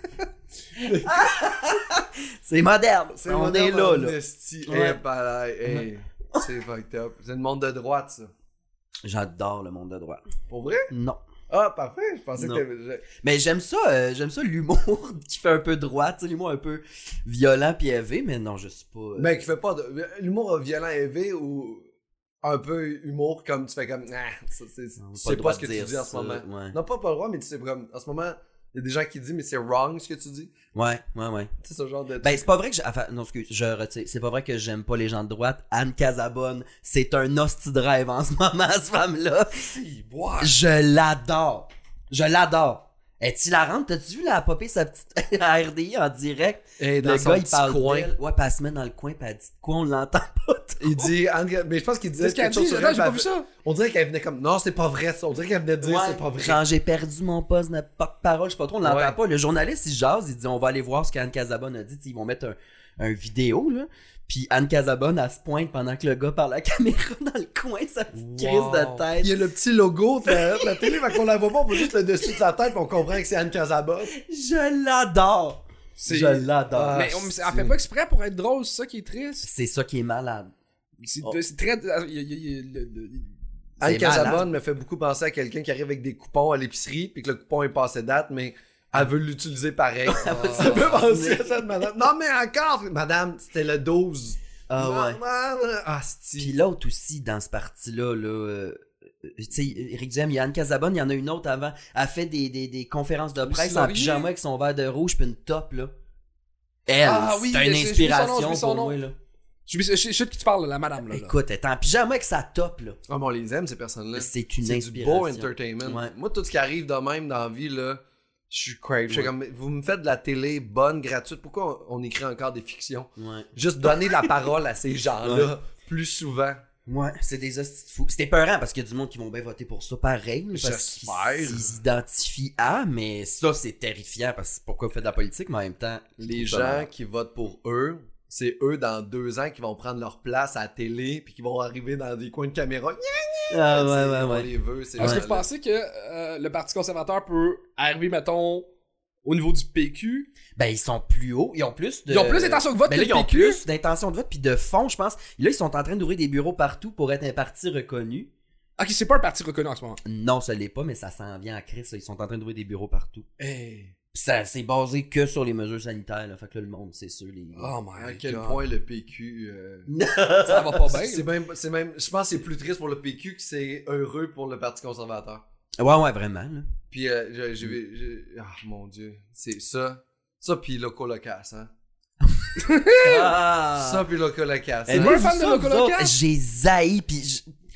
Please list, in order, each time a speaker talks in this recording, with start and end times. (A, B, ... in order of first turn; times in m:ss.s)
0:00.8-0:01.2 A
0:00.8-0:04.2 B
0:03.1-0:08.3 A
0:04.7-0:05.0 B
0:05.7-0:06.5 B
0:09.0-0:10.2 B
0:10.5-0:10.9 A
0:10.9-0:11.2 B
0:11.5-0:13.1 A
0:12.4-0:12.6 B
0:13.2-0:19.5 B
0:19.2-0:21.9 A
0:22.4-0:30.5 A
0:25.0-0:26.8 B
0:30.7-0:31.5 B
0:31.6-0:32.4 A
0:32.2-0:39.7 B
0:39.9-0:40.5 A
0:40.4-0:51.1 B
0:46.8-0:48.1 A
0:50.8-0:56.6 A
0:52.2-0:53.5 C
0:55.8-1:09.4 B
0:58.8-0:59.2 A
1:08.1-1:14.1 A
1:10.3-1:11.1 B
1:14.2-1:17.1 B
1:16.0-1:19.5 C
1:16.7-1:17.8 A
1:19.4-1:20.5 B
1:21.0-1:23.3 C
1:23.8-1:36.6 A
1:23.8-1:24.5 B
1:30.1-1:31.6 B
1:30.4-1:30.8 C
1:34.7-1:35.2 B
1:36.4-1:45.9 B
1:43.4-1:44.3 C
1:46.9-1:49.2 B
1:47.0-1:49.0 C
1:49.7-1:51.4 C
1:51.1-1:53.0 B
1:53.1-2:06.6 A
1:54.2-1:56.1 B
2:03.2-2:04.3 B
2:05.2-2:05.5 B
2:06.9-2:16.9 B
2:10.5-2:11.8 A
2:16.2-2:25.5 A
2:23.5-2:25.2 B
2:25.0-2:28.7 C
2:29.2-2:30.3 C
2:30.6-2:38.3 B
2:32.1-2:33.6 C
2:38.8-2:40.0 C
2:40.0-2:43.3 B
2:43.4-2:44.0 A
2:44.1-2:47.7 B
2:47.6-2:48.5 C
2:48.0-2:49.9 A
2:49.9-2:51.0 B
2:50.4-2:51.2 C
2:50.9-2:55.4 A
2:55.8-2:56.7 B
2:56.9-3:01.7 A
3:02.2-3:04.0 B
3:02.6-3:03.3 C
3:03.7-3:05.2 A
3:04.9-3:07.5 B
3:04.9-3:06.1 C